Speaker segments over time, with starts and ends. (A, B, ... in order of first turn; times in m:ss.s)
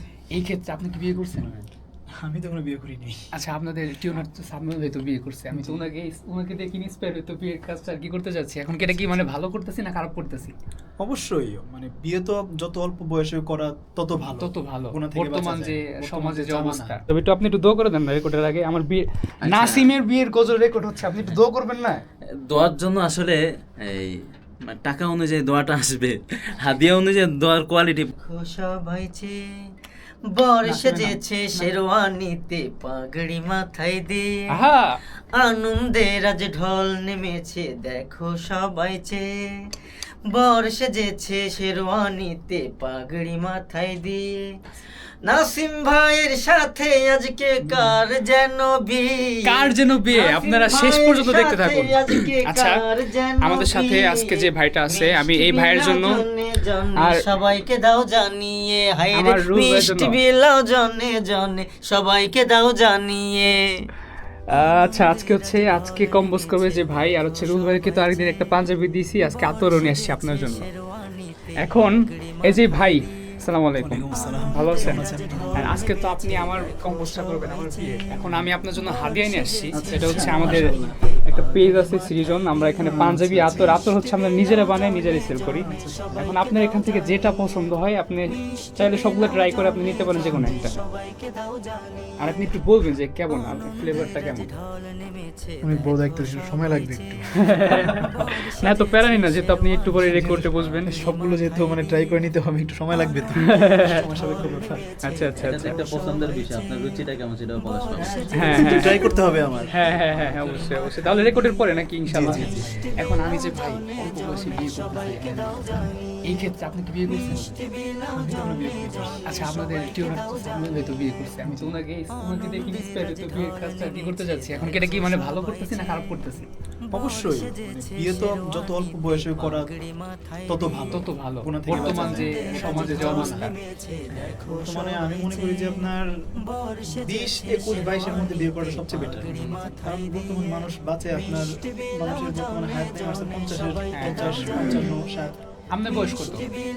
0:00.3-0:01.6 A
0:02.2-0:03.2 B
0:03.3-0:10.5 A
0:05.5-0:05.8 B
0:11.0-0:17.0 B
0:14.4-0:22.0 A
0:19.4-0:19.9 C
0:22.5-0:24.2 C
0:24.7-0:28.1 C
0:28.2-0:29.4 D
0:30.4-0:34.4 D
0:30.6-0:31.7 A
0:34.5-0:34.9 A
0:35.3-0:39.3 D
0:40.3-0:44.6 D
0:45.2-1:03.8 D
0:47.6-0:48.0 A
0:49.4-0:52.8 A
0:53.4-0:56.2 A
0:57.0-0:57.2 A
0:59.1-1:00.2 A
1:04.5-1:10.7 A
1:11.6-1:20.7 A
1:13.8-1:15.8 B
1:19.7-1:21.0 B
1:21.2-1:25.7 A
1:22.8-1:23.8 B
1:25.6-1:26.2 B
1:26.2-1:30.8 A
1:30.3-1:30.6 B
1:32.2-1:34.5 A
1:35.6-1:38.3 B
1:37.4-1:40.9 A
1:40.1-1:44.8 B
1:43.4-1:44.0 A
1:45.0-1:45.8 A
1:45.4-1:48.8 C
1:48.0-1:49.7 B
1:48.3-1:49.1 A
1:49.7-1:55.7 A
1:50.3-1:50.6 B
1:52.1-1:53.0 B
1:56.2-1:57.6 A
1:58.1-1:59.2 B
1:59.3-2:06.5 A
2:06.9-2:09.7 B
2:10.5-2:13.5 B
2:10.9-2:13.5 A
2:13.0-2:15.1 D
2:14.1-2:16.1 B
2:16.6-2:17.1 D
2:16.8-2:25.4 B
2:19.2-2:19.8 D
2:23.9-2:24.7 A
2:25.7-2:26.5 A